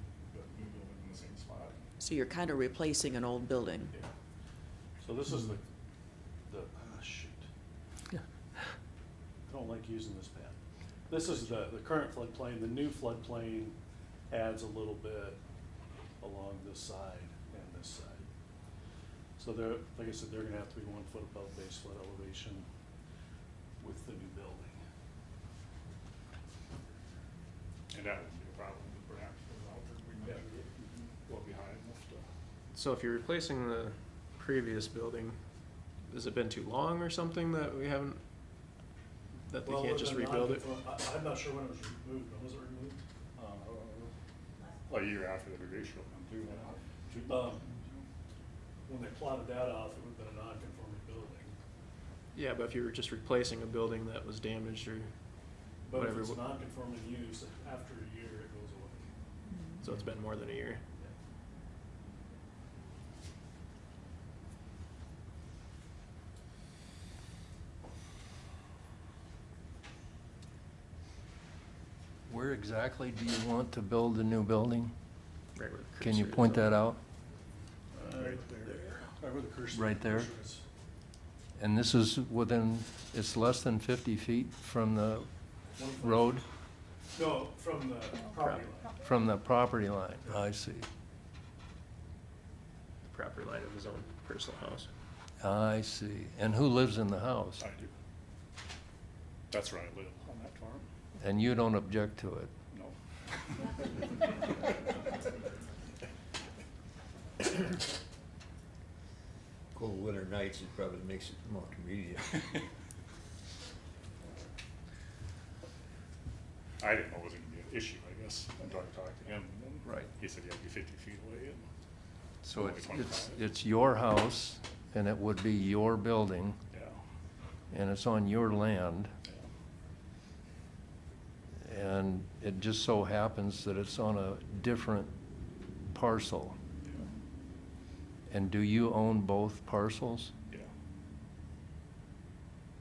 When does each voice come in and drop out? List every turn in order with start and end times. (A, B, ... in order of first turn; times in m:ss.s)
0:00.3-0:01.8 A
0:02.0-0:03.9 B
0:05.0-0:05.6 C
0:06.5-0:07.4 C
0:09.5-0:10.6 C
0:11.1-0:13.8 C
0:14.3-0:15.4 C
0:16.2-0:18.2 C
0:19.4-0:22.7 C
0:23.8-0:24.8 C
0:27.9-0:32.2 A
0:32.7-0:35.4 D
0:36.1-0:38.2 D
0:39.5-0:40.6 D
0:39.6-0:43.0 C
0:43.4-0:44.1 A
0:44.9-0:48.0 A
0:47.3-0:47.6 C
0:48.8-0:51.5 C
0:52.3-0:55.1 D
0:55.8-0:59.1 C
0:55.9-0:56.4 D
0:59.8-1:00.8 D
1:12.3-1:14.9 E
1:15.6-1:16.7 D
1:16.0-1:17.0 E
1:17.9-1:20.6 C
1:18.1-1:18.9 A
1:19.7-1:20.3 E
1:21.6-1:25.3 E
1:25.8-1:26.4 C
1:26.0-1:26.4 E
1:27.1-1:28.9 C
1:28.3-1:28.7 D
1:29.0-1:30.8 E
1:33.0-1:34.9 D
1:35.4-1:37.6 E
1:37.6-1:37.9 A
1:39.5-1:40.9 A
1:41.2-1:42.5 E
1:42.7-1:43.7 A
1:49.7-1:52.6 F
1:56.8-2:01.6 A
2:02.4-2:06.6 E
2:02.5-2:03.4 A
2:06.7-2:07.0 A
2:07.7-2:09.1 E
2:11.6-2:15.1 E
2:15.9-2:16.6 E
2:18.3-2:20.3 E